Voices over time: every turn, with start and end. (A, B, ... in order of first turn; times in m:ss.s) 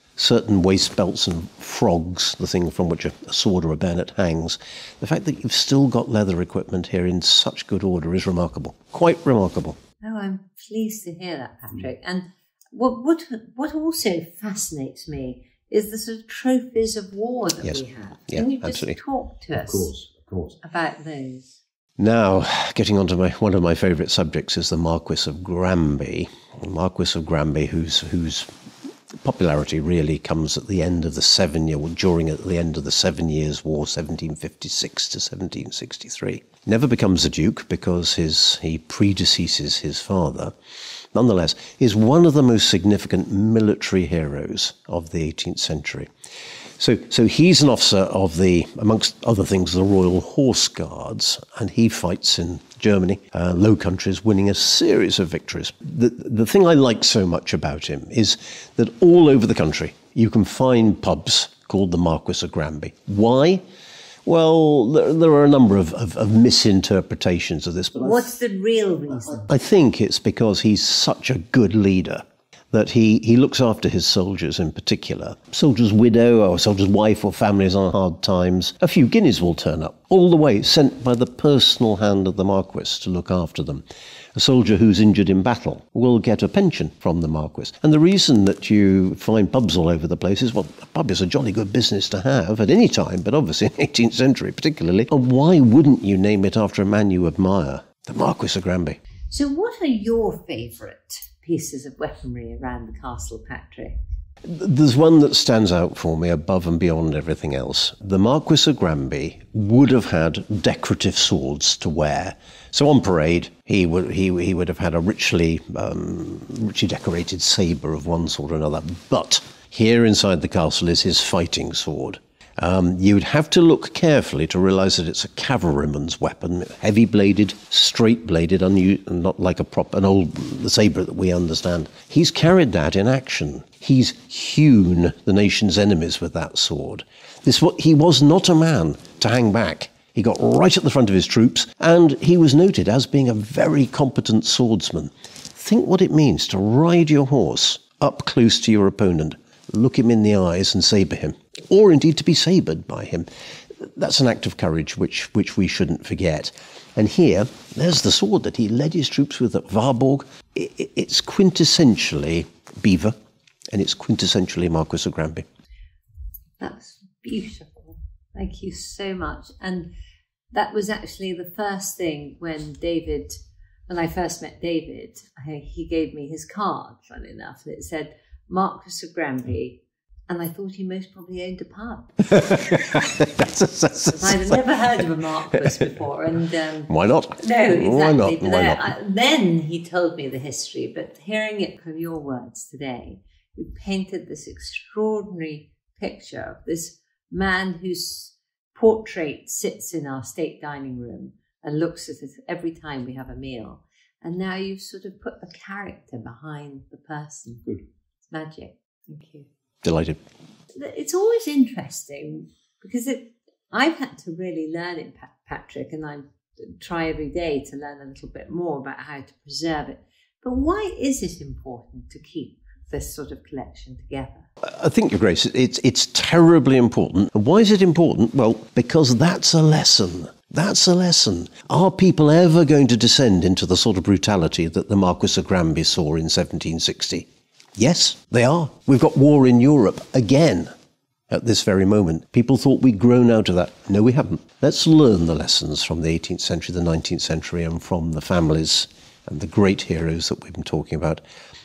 0:00.2-0:09.8 A
0:10.0-0:20.0 B
0:17.6-0:19.0 A
0:19.8-0:20.5 A
0:20.6-0:21.6 B
0:22.0-0:28.5 A
0:29.2-0:40.5 A
0:41.1-0:46.1 A
0:46.8-1:03.6 A
1:04.2-1:08.2 A
1:08.0-1:09.5 B
1:09.3-1:23.8 A
1:24.3-1:39.0 A
1:39.3-1:44.0 B
1:44.4-2:33.3 A
2:33.8-2:43.1 A
2:43.7-2:45.4 A
2:46.6-2:49.9 B
2:50.5-3:02.2 B
3:02.3-3:04.6 A
3:04.0-3:29.5 B
3:06.9-3:08.9 A
3:29.8-3:30.2 A
3:30.7-3:44.5 B
3:44.6-4:00.7 A
4:01.3-4:11.2 A